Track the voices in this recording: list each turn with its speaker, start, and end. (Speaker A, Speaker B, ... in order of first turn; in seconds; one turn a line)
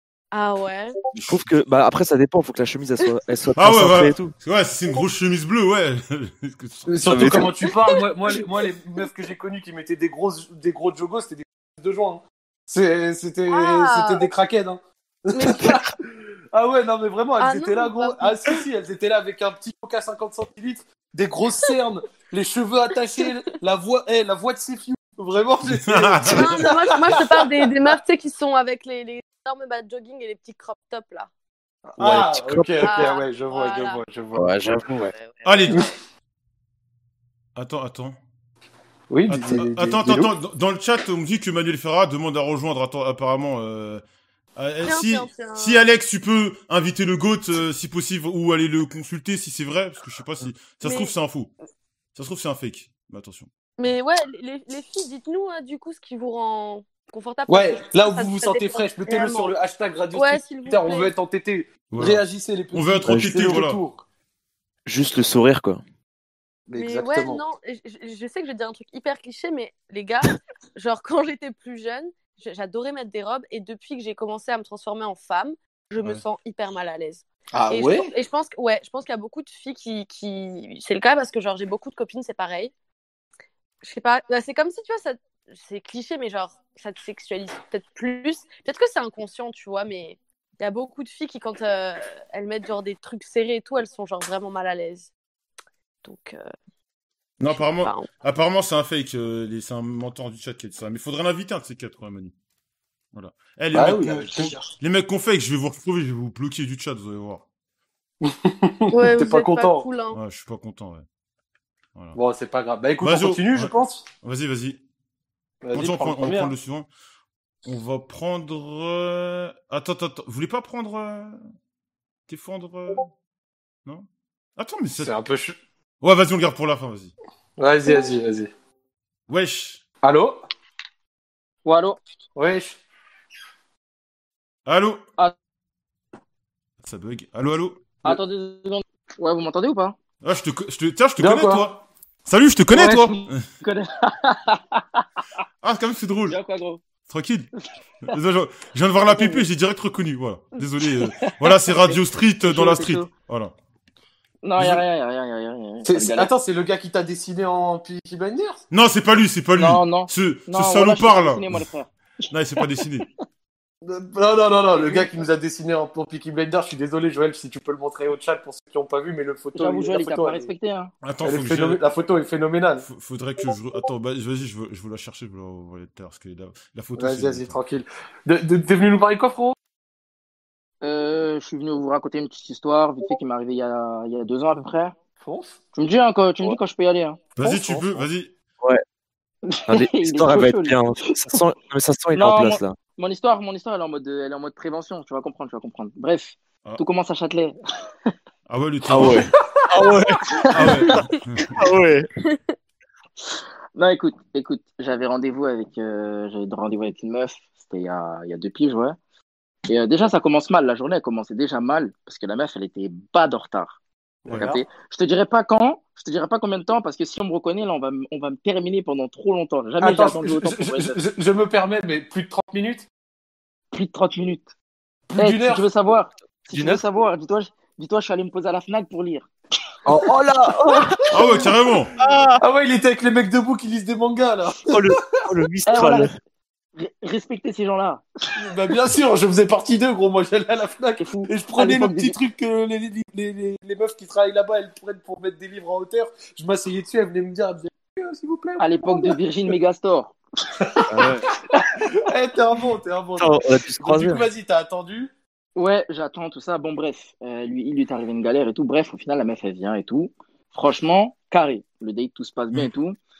Speaker A: 0.3-1.0
Speaker B: 1.1-1.5
Speaker C: 1.3-4.3
Speaker B: 3.6-7.5
Speaker D: 6.9-27.7
Speaker C: 7.0-7.7
Speaker A: 7.8-8.1
Speaker A: 13.5-14.3
Speaker A: 15.3-15.8
Speaker A: 17.4-18.5
Speaker B: 25.8-26.7
Speaker A: 26.3-31.3
Speaker D: 31.9-35.0
Speaker C: 32.0-33.1
Speaker A: 32.8-34.0
Speaker C: 34.3-35.1
Speaker A: 35.1-35.7
Speaker B: 35.4-35.8
Speaker B: 37.5-38.2
Speaker D: 39.1-40.3
Speaker B: 39.3-44.0
Speaker B: 44.5-51.5
Speaker A: 44.8-45.9
Speaker A: 50.8-51.1
Speaker B: 52.1-53.5
Speaker A: 53.8-59.5
Speaker D: 57.5-64.0
Speaker A: 60.1-61.1
Speaker B: 61.9-63.8
Speaker C: 63.1-63.6
Speaker C: 64.8-65.8
Speaker D: 66.7-67.4
Speaker A: 66.7-82.7
Speaker D: 77.5-78.1
Speaker A: 83.8-95.1
Speaker A: 96.0-96.5
Speaker B: 97.4-102.3
Speaker A: 97.5-98.1
Speaker B: 103.1-107.4
Speaker D: 103.7-104.7
Speaker D: 108.2-109.9
Speaker A: 108.9-110.2
Speaker B: 110.1-111.0
Speaker D: 112.1-114.0
Speaker B: 113.0-114.8
Speaker D: 115.6-116.5
Speaker B: 115.7-116.9
Speaker B: 117.7-121.4
Speaker B: 122.3-123.1
Speaker B: 124.6-125.1
Speaker D: 125.0-125.6
Speaker B: 126.0-127.1
Speaker D: 127.6-128.5
Speaker B: 129.3-129.8
Speaker D: 130.0-130.4
Speaker E: 131.6-132.0
Speaker D: 132.3-132.8
Speaker B: 134.7-135.0
Speaker B: 136.8-137.8
Speaker E: 138.0-140.0
Speaker B: 140.2-143.4
Speaker D: 141.2-141.8
Speaker E: 142.7-145.1
Speaker B: 145.6-146.4
Speaker E: 146.3-146.8
Speaker B: 147.1-147.5
Speaker B: 148.1-153.5
Speaker E: 149.1-149.4
Speaker E: 150.8-153.1
Speaker E: 154.4-156.3
Speaker B: 154.6-154.8
Speaker D: 155.8-158.6
Speaker B: 158.7-161.6
Speaker E: 159.6-161.9
Speaker B: 162.3-163.1
Speaker E: 162.6-163.0
Speaker D: 163.8-170.5
Speaker E: 164.7-165.1
Speaker E: 169.5-170.9
Speaker B: 171.0-171.8
Speaker D: 171.2-172.8
Speaker B: 172.8-177.6
Speaker D: 176.9-179.6
Speaker E: 180.8-185.0
Speaker D: 185.2-185.6
Speaker E: 185.7-188.0
Speaker B: 187.4-188.3
Speaker E: 189.4-191.4
Speaker C: 189.7-192.8
Speaker E: 192.1-197.6
Speaker B: 198.5-199.3
Speaker C: 198.9-200.8
Speaker E: 200.4-200.9
Speaker B: 200.5-201.5
Speaker C: 201.5-202.1
Speaker E: 203.3-209.0
Speaker E: 209.7-213.8
Speaker D: 214.2-214.6
Speaker E: 214.3-221.0
Speaker D: 219.8-222.9
Speaker E: 223.7-224.5
Speaker D: 225.1-225.6
Speaker E: 225.2-229.3
Speaker C: 226.5-226.8
Speaker C: 229.8-231.3
Speaker D: 229.9-231.3
Speaker B: 231.1-231.9
Speaker C: 232.0-232.4
Speaker D: 232.4-235.2
Speaker C: 234.7-236.1
Speaker E: 235.7-236.1
Speaker E: 236.8-238.4
Speaker D: 238.3-249.1
Speaker E: 241.0-242.2
Speaker E: 248.6-250.2
Speaker D: 250.6-255.1
Speaker C: 250.9-251.3
Speaker C: 253.2-254.2
Speaker E: 255.6-262.9